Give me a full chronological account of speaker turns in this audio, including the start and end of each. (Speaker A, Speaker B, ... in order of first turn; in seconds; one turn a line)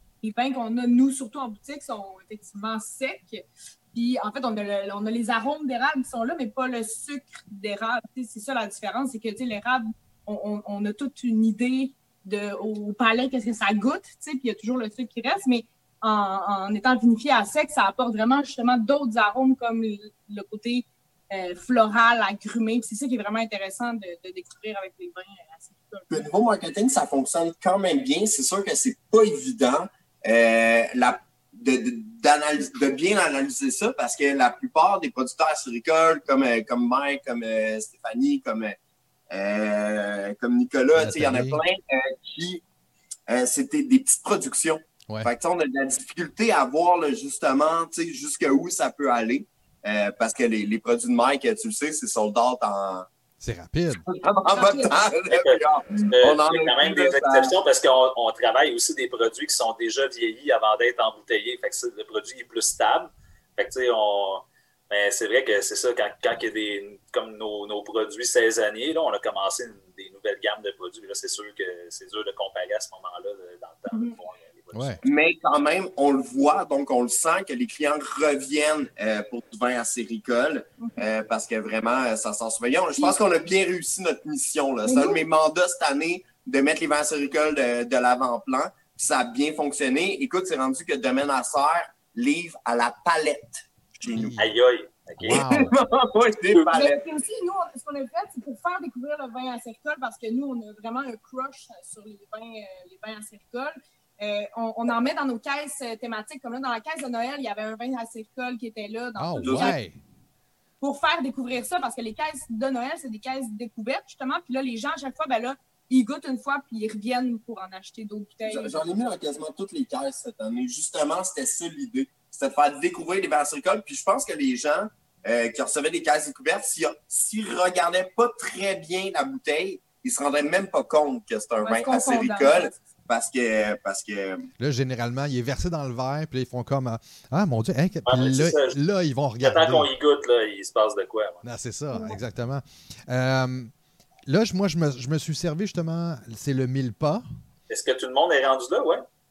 Speaker A: 0.2-26.3
Speaker B: 26.1-38.8
Speaker B: 39.3-42.6
Speaker C: 40.9-41.6
Speaker B: 43.3-53.1
Speaker C: 53.4-54.0
Speaker B: 54.0-57.5
Speaker A: 54.5-55.0
Speaker D: 55.3-75.0
Speaker C: 74.7-75.0
Speaker B: 75.0-94.3
Speaker A: 84.8-85.2
Speaker C: 94.1-94.5
Speaker D: 94.3-95.4
Speaker C: 95.2-95.7
Speaker B: 95.3-97.0
Speaker A: 96.7-109.8
Speaker C: 109.2-110.0
Speaker B: 109.4-109.7
Speaker A: 110.8-118.8
Speaker B: 118.5-134.5
Speaker A: 131.6-132.7
Speaker C: 134.6-139.9
Speaker D: 138.1-138.8
Speaker D: 139.4-141.4
Speaker C: 141.4-143.7
Speaker C: 144.2-147.2
Speaker D: 147.7-149.0